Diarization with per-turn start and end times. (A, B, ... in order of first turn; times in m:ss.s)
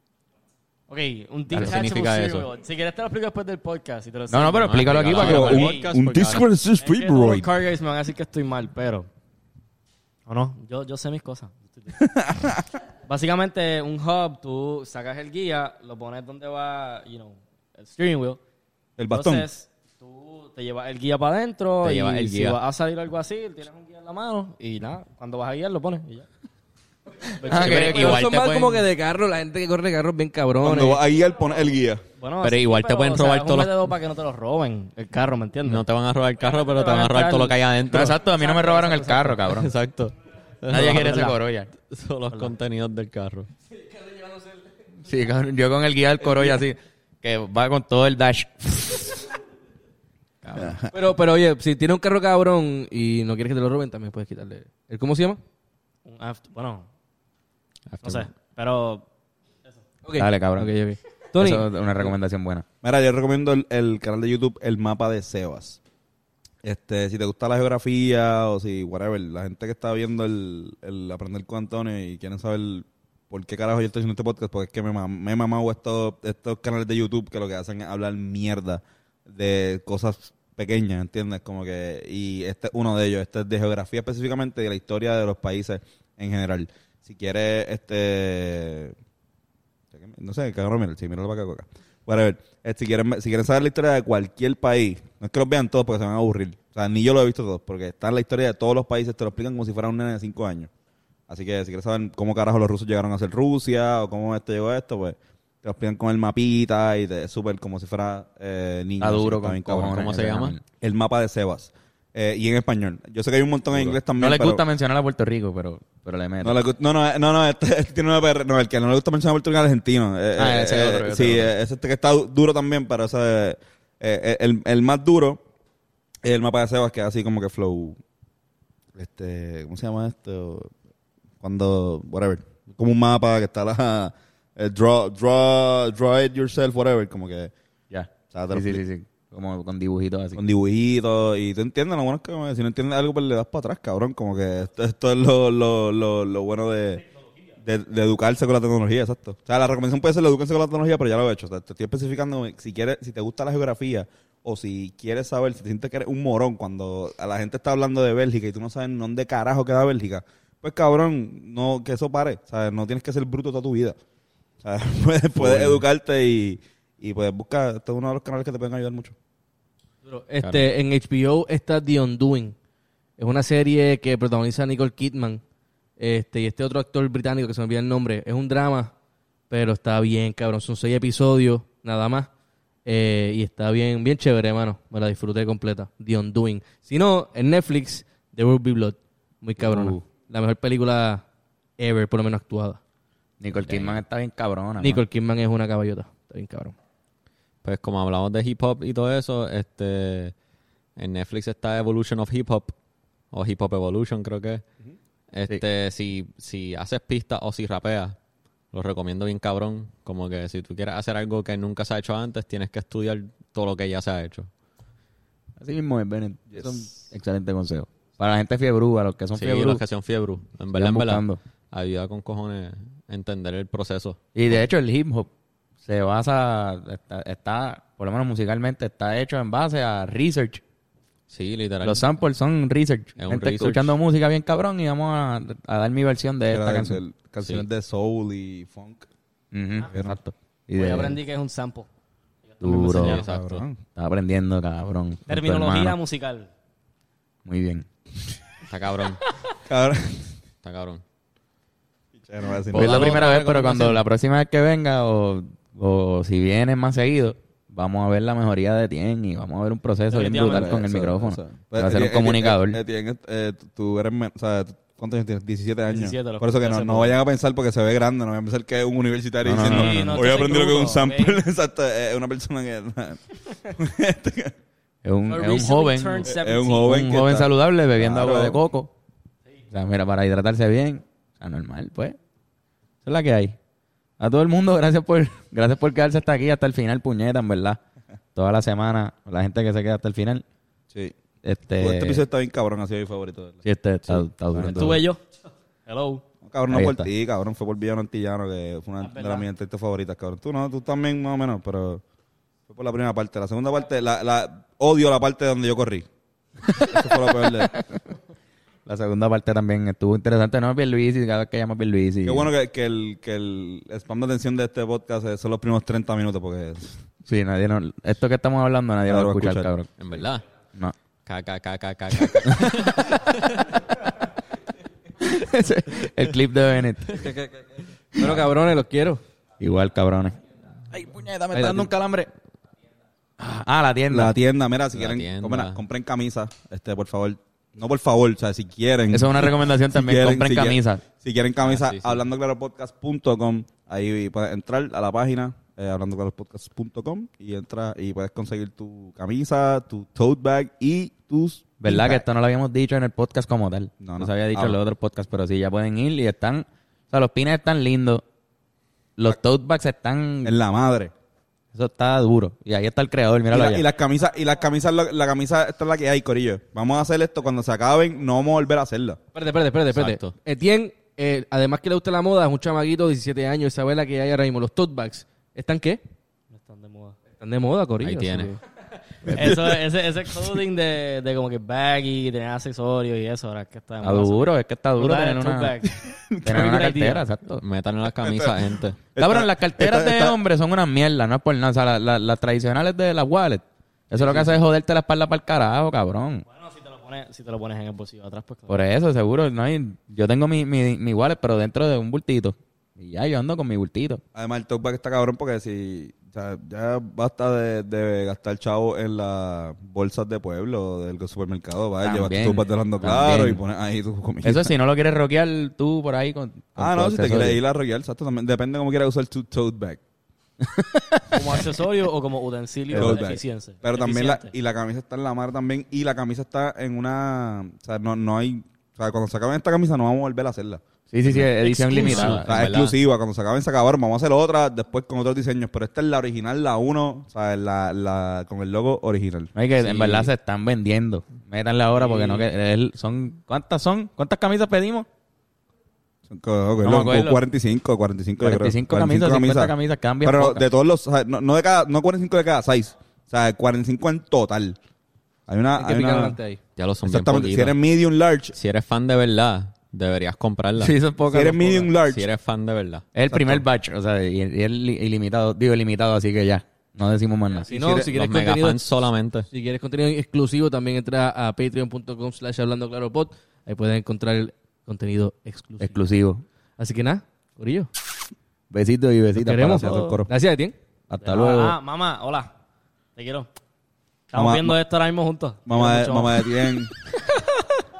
0:00.9-0:05.9 A
0:01.5-0:02.5 B
0:04.3-0:05.7 C
0:04.6-0:06.5 B
0:05.1-0:07.5 D
0:06.8-0:09.1 A
0:10.3-0:12.0 A
0:12.0-0:12.6 D
0:13.1-0:18.4 A
0:19.0-0:19.5 D
0:19.1-0:26.3 A
0:21.8-0:22.6 B
0:27.4-0:28.2 A
0:27.4-0:28.9 C
0:27.5-0:31.0 E
0:30.6-0:32.0 D
0:32.2-0:35.8 A
0:32.4-0:33.8 B
0:35.6-0:38.2 B
0:36.4-0:39.5 A
0:37.9-0:39.7 C
0:39.5-0:43.5 B
0:40.7-0:41.7 C
0:45.0-0:49.3 C
0:50.4-0:50.7 C
0:50.6-0:50.9 D
0:50.9-0:55.4 E
0:56.0-0:56.9 A
0:57.9-0:58.3 B
0:58.0-0:59.1 A
1:00.0-1:01.7 E
1:00.2-1:00.8 C
1:01.4-1:02.7 C
1:02.8-1:05.8 D
1:06.6-1:29.0 D
1:29.9-1:40.7 D
1:41.3-1:50.1 D
1:49.0-1:50.6 C
1:50.0-1:50.6 B
1:50.8-1:54.6 D
1:53.7-1:56.6 C
1:56.4-2:05.4 D
2:00.4-2:01.5 C
2:06.2-2:08.0 D
2:09.0-2:10.7 D
2:11.4-2:17.5 D
2:17.9-2:20.4 C
2:18.3-2:18.8 D
2:20.4-2:27.0 D
2:27.6-2:44.0 D
2:44.6-2:49.2 D
2:45.5-2:45.8 B
2:50.1-2:52.6 E
2:50.4-2:50.7 B
2:53.2-2:55.4 E
2:56.0-2:58.9 E
2:59.5-3:02.3 E
3:02.8-3:11.2 E
3:09.6-3:10.0 C
3:11.8-3:12.8 E
3:13.4-3:15.0 C
3:13.7-3:14.0 B
3:14.8-3:16.8 E
3:17.6-3:20.4 B
3:21.0-3:22.8 B
3:23.3-3:24.6 B
3:25.3-3:28.2 B
3:28.7-3:34.5 B
3:35.6-3:39.8 C
3:39.4-3:44.6 B
3:40.7-3:41.4 C
3:44.4-3:45.3 C
3:45.8-3:50.6 C
3:51.3-3:52.1 B
3:51.8-3:57.0 C
3:53.2-3:54.0 B
3:56.5-3:59.1 D
3:59.5-4:01.2 C
4:00.7-4:01.9 A
4:02.4-4:03.2 A
4:02.6-4:03.2 C
4:03.0-4:03.6 B
4:03.1-4:03.8 D
4:04.0-4:06.0 C
4:05.3-4:06.5 A
4:07.4-4:07.9 C
4:08.7-4:09.2 B
4:09.7-4:10.4 D
4:10.6-4:11.0 B
4:12.2-4:13.2 D
4:12.7-4:22.8 C
4:12.7-4:14.0 B
4:20.1-4:20.8 A
4:20.4-4:34.5 D
4:25.9-4:27.2 A
4:29.4-4:30.4 C
4:29.6-4:31.4 A
4:35.0-4:36.3 C
4:35.3-4:37.0 A
4:36.3-4:38.6 D
4:36.9-4:38.9 C
4:39.7-4:42.2 C
4:43.0-4:43.6 C
4:44.2-4:47.8 C
4:48.4-4:50.4 C
4:51.4-4:52.2 C
4:51.8-4:55.0 D
4:53.6-4:55.0 C
4:54.6-4:55.2 A
4:55.9-4:56.2 A
4:56.4-5:02.0 D
4:56.7-4:57.1 C
4:59.0-4:59.5 A
5:02.7-5:06.1 D
5:06.7-5:07.8 C
5:06.8-5:07.8 D
5:08.9-5:12.5 C
5:12.2-5:17.0 D
5:17.3-5:20.2 C
5:19.1-5:19.7 D
5:20.0-5:20.4 B
5:21.3-5:23.6 B
5:22.3-5:23.0 C
5:25.2-5:27.3 C
5:27.1-5:27.6 E
5:28.2-5:29.2 E
5:29.6-5:30.4 C
5:30.9-5:32.3 C
5:31.5-5:31.9 E
5:33.4-5:34.4 C
5:34.1-5:52.2 D
5:34.9-5:35.8 B
5:39.1-5:41.0 C
5:41.6-5:42.2 B
5:51.8-5:58.2 C
5:54.0-5:54.8 D
5:59.2-6:00.6 C
6:00.4-6:01.1 D
6:01.7-6:03.8 C
6:03.5-6:09.2 D
6:09.3-6:16.0 E
6:09.9-6:10.4 B
6:16.5-6:17.2 A
6:17.4-6:18.6 E
6:18.0-6:18.5 B
6:19.3-6:19.6 C
6:19.3-6:27.3 A
6:19.3-6:19.8 D
6:24.0-6:25.8 C
6:26.1-6:26.7 D
6:26.4-6:27.6 C
6:27.6-6:29.0 B
6:28.2-6:28.6 D
6:29.2-6:30.4 D
6:29.2-6:36.5 C
6:34.2-6:34.5 B
6:36.5-6:38.8 A
6:38.7-6:44.2 C
6:44.4-6:54.7 D
6:52.0-6:53.6 C
6:54.4-6:57.6 C
6:56.8-7:00.0 D
7:00.6-7:01.5 C
7:01.3-7:04.5 A
7:02.9-7:20.3 D
7:11.1-7:12.5 C
7:11.8-7:13.0 B
7:19.6-7:25.1 C
7:26.3-7:34.8 D
7:26.8-7:27.4 C
7:28.4-7:30.7 C
7:35.5-7:36.4 D
7:35.8-7:36.6 E
7:36.8-7:37.8 B
7:37.0-7:38.5 D
7:38.5-7:41.0 B
7:40.8-7:41.9 C
7:41.3-7:42.2 D
7:42.0-7:43.0 B
7:43.2-7:47.7 C
7:43.3-7:43.7 D
7:47.7-7:48.1 D
7:47.7-7:48.8 E
7:48.0-7:49.5 B
7:49.5-7:56.0 E
7:55.8-7:56.4 C
7:56.8-7:57.9 E
7:58.7-8:00.0 C
7:59.4-8:00.8 E
7:59.8-8:00.3 D
8:01.1-8:01.8 C
8:01.2-8:02.5 A
8:03.2-8:03.5 A
8:04.3-8:06.4 A
8:04.3-8:04.8 D
8:05.7-8:06.9 D